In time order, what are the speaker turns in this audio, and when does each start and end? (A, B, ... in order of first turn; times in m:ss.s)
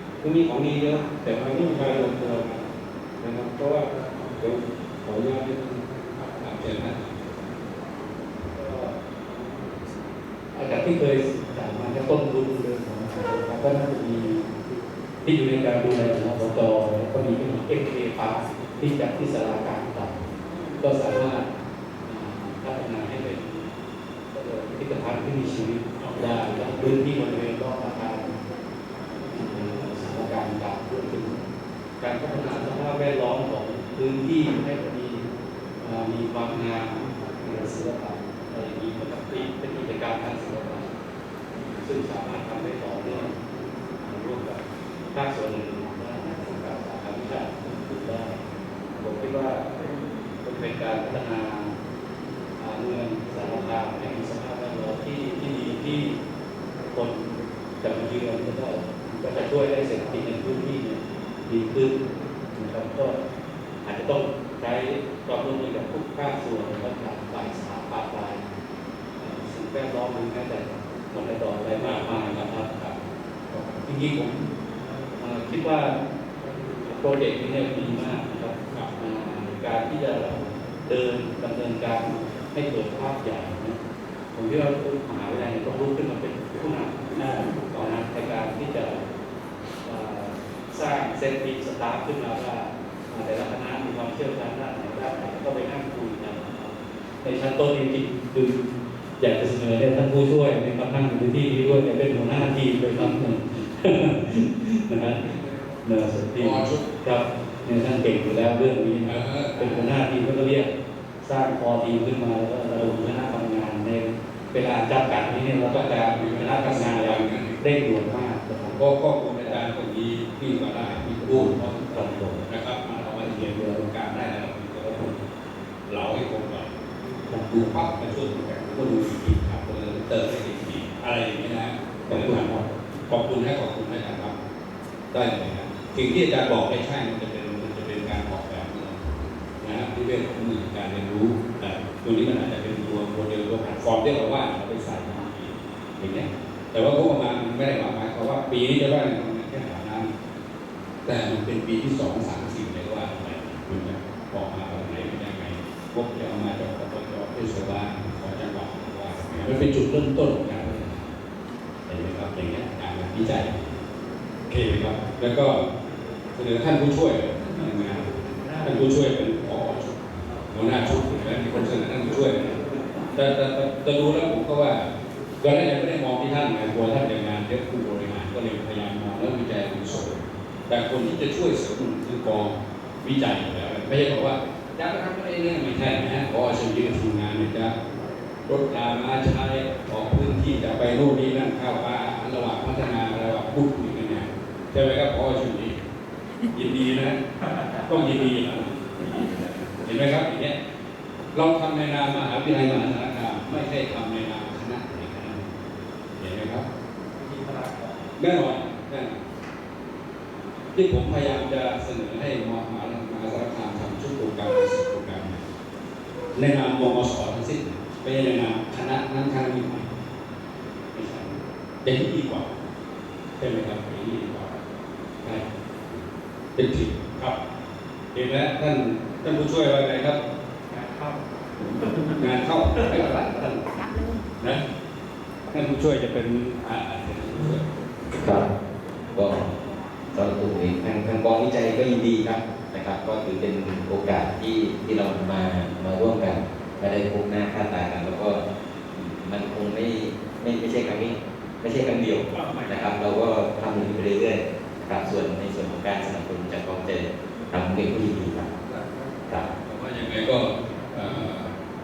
0:00.2-0:02.6 A
0:03.2-0:03.9 A
0:04.4-0:05.9 A
0:06.4-0:07.2 B
0:08.5-0:08.9 A
0:10.5-0:14.4 C
0:15.2-0:20.2 C
0:20.8-0:21.5 C
0:22.0-0:23.6 C
0:24.3-0:28.4 C
0:26.0-0:26.3 B
0:29.3-0:31.4 C
0:32.0-0:35.2 C
0:35.8-0:40.9 C
0:41.8-0:43.3 C
0:44.0-0:44.6 C
0:45.1-0:48.4 C
0:49.0-0:49.6 C
0:50.4-0:51.7 C
0:52.6-0:56.1 C
0:56.9-0:57.3 C
0:57.8-1:02.0 C
1:02.5-1:03.2 C
1:03.8-1:08.4 C
1:09.2-1:14.4 C
1:15.2-1:16.0 C
1:16.8-1:23.8 C
1:24.4-1:29.0 C
1:29.8-1:38.6 C
1:39.2-1:50.7 C
1:46.4-1:46.9 B
1:49.1-1:49.9 B
1:51.2-1:58.8 C
1:55.7-1:57.6 B
1:58.7-2:05.2 B
2:01.2-2:02.4 C
2:05.9-2:06.7 B
2:07.3-2:12.6 B
2:13.1-2:14.4 B
2:15.1-2:30.1 B
2:31.0-2:41.1 B
2:41.9-2:43.8 B
2:44.5-2:45.6 B
2:46.4-2:52.6 B
2:53.1-2:54.9 B
2:55.4-3:07.7 B
3:08.5-3:15.8 B
3:16.5-3:17.2 B
3:17.9-3:20.5 B
3:21.3-3:25.5 B
3:26.2-3:26.6 B
3:28.2-3:29.1 B
3:30.8-3:35.4 B
3:36.4-3:39.9 B
3:40.9-3:42.6 B
3:43.4-3:44.5 B
3:45.2-3:46.0 B
3:46.6-3:47.4 B
3:48.1-3:50.2 B
3:52.2-3:53.6 B
3:55.5-3:57.6 B
3:58.2-3:58.5 D
3:59.1-3:59.5 D
4:00.1-4:08.4 D
4:08.9-4:18.5 D
4:19.6-4:21.5 B